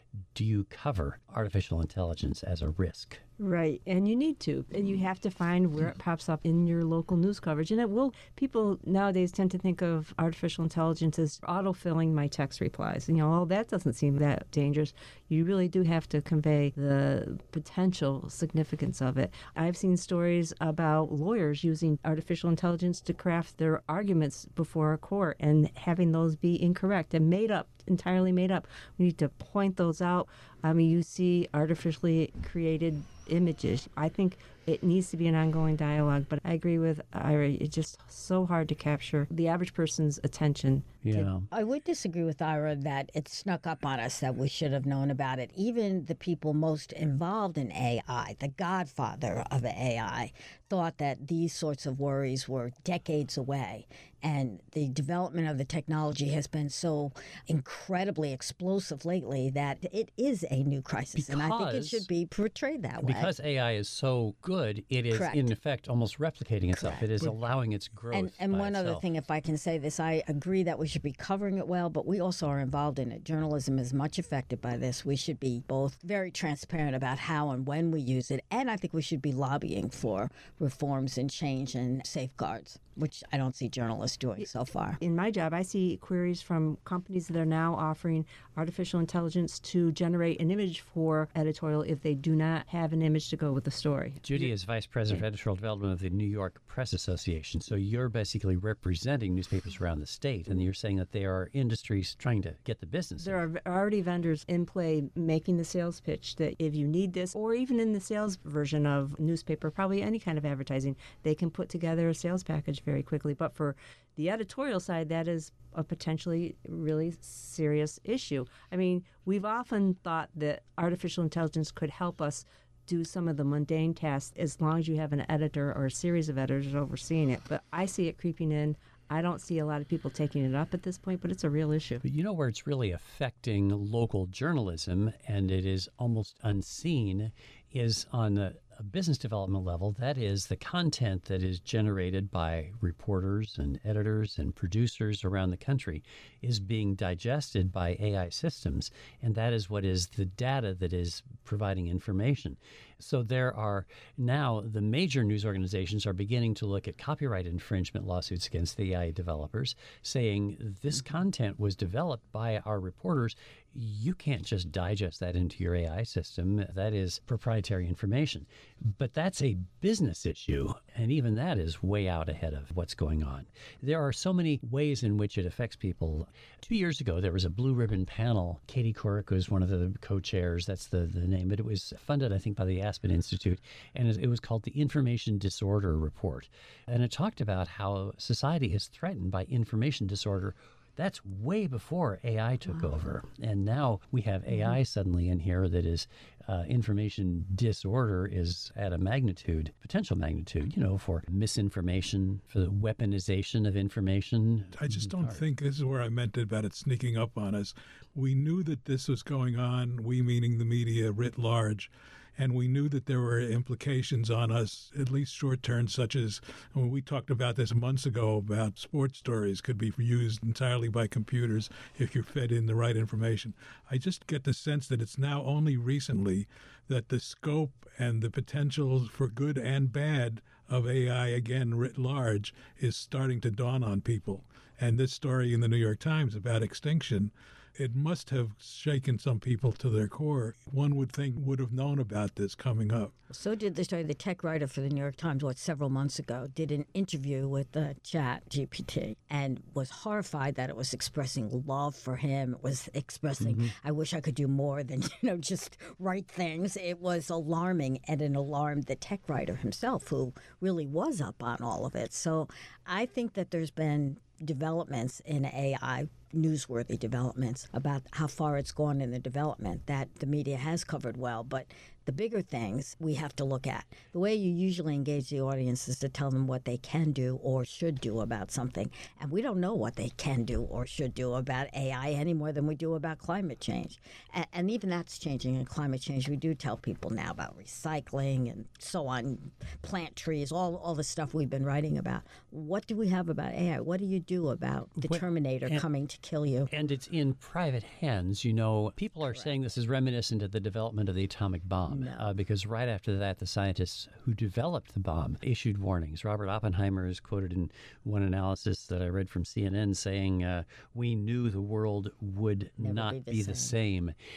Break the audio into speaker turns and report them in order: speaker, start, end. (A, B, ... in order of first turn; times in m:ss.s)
0:00.3-0:03.2 A
0:03.4-0:41.3 B
0:41.0-0:41.5 A
0:41.5-1:03.3 C
1:01.1-1:02.1 A
1:03.0-1:09.0 A
1:05.1-1:05.5 C
1:06.7-1:07.1 C
1:08.1-1:25.0 C
1:25.0-1:34.5 B
1:34.2-1:43.4 A
1:43.2-2:12.0 B
2:12.0-3:25.4 A
3:24.8-4:03.1 D
4:03.3-4:56.7 C
4:13.4-4:13.7 A
4:55.0-4:55.8 A
4:56.7-5:14.1 A
4:59.2-4:59.5 C
5:01.9-5:02.3 C
5:12.8-5:13.8 C